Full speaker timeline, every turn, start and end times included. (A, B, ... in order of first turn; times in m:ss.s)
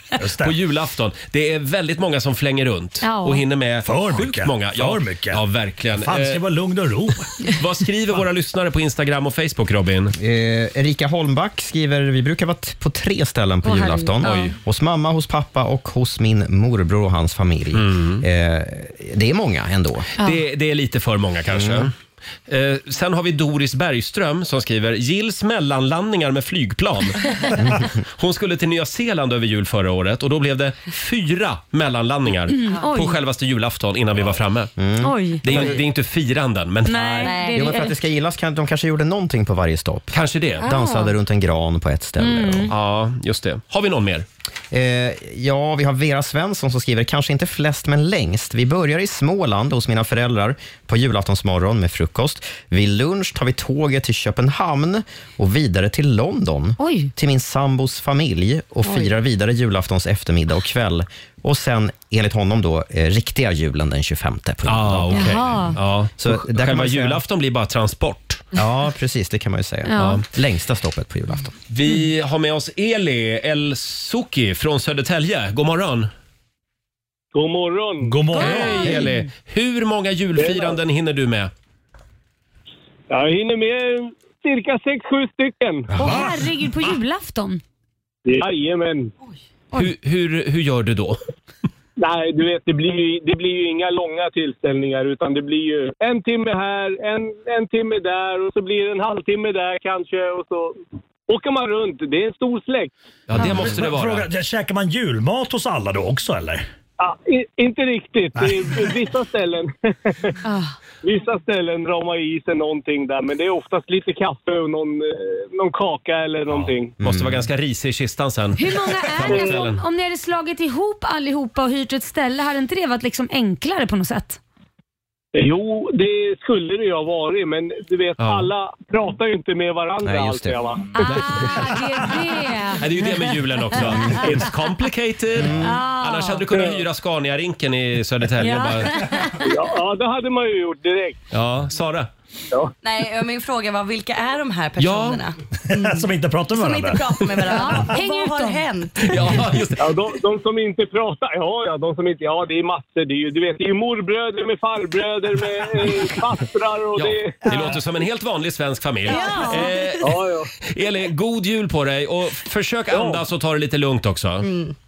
0:00.2-0:00.6 A
0:00.2-0:06.4 B
0:03.0-0:03.4 C
0:03.8-0:05.4 A
0:05.9-0:07.3 A
0:07.4-0:10.1 B
0:10.2-0:20.1 D
0:13.6-0:14.5 C
0:14.2-0:14.5 B
0:17.7-0:18.2 B
0:20.2-0:21.9 B
0:21.5-0:21.9 D
0:22.5-0:34.7 B
0:32.5-0:33.2 C
0:34.8-0:35.8 D
0:35.0-0:35.4 C
0:35.4-0:37.4 B
0:36.8-0:38.0 C
0:37.2-0:37.6 E
0:37.5-0:42.7 D
0:40.1-0:40.7 B
0:40.6-0:41.1 E
0:42.2-0:42.7 C
0:42.7-0:44.3 B
0:44.7-1:05.6 D
0:56.8-0:57.1 C
1:04.7-1:08.4 B
1:05.1-1:05.8 C
1:06.2-1:07.2 D
1:08.6-1:11.5 D
1:09.9-1:10.2 C
1:10.0-1:10.2 B
1:11.7-1:16.1 B
1:17.3-1:18.2 F
1:18.0-1:19.0 A
1:18.3-1:19.3 C
1:18.4-1:21.5 B
1:20.4-1:20.8 F
1:23.1-1:25.9 F
1:26.0-1:26.4 A
1:26.0-1:27.6 C
1:28.3-1:29.1 F
1:29.7-1:31.2 B
1:32.0-1:40.8 F
1:41.3-1:42.9 F
1:43.3-1:44.3 B
1:43.3-1:46.7 A
1:47.0-1:50.3 F
1:48.4-1:49.0 A
1:50.4-1:50.8 C
1:51.0-1:57.0 F
1:57.0-1:57.4 D
1:57.0-1:59.8 B
1:58.6-2:04.4 C
2:05.4-2:11.0 F
2:08.2-2:08.5 B
2:10.0-2:10.6 D
2:10.9-2:13.2 C
2:12.8-2:19.0 B
2:13.8-2:14.3 D
2:15.4-2:15.8 D
2:15.6-2:16.5 C
2:16.5-2:16.8 F
2:18.4-2:19.6 C
2:19.4-2:21.2 F
2:21.3-2:22.1 B
2:22.8-2:29.4 E
2:24.8-2:25.2 B
2:25.7-2:27.1 A
2:27.5-2:28.6 C
2:29.1-2:29.8 B
2:29.8-2:37.5 F
2:37.0-2:40.2 B
2:39.1-2:39.8 E
2:39.1-2:39.7 C
2:40.0-2:40.5 F
2:40.7-2:44.5 B
2:42.9-2:43.2 F
2:44.4-2:44.7 E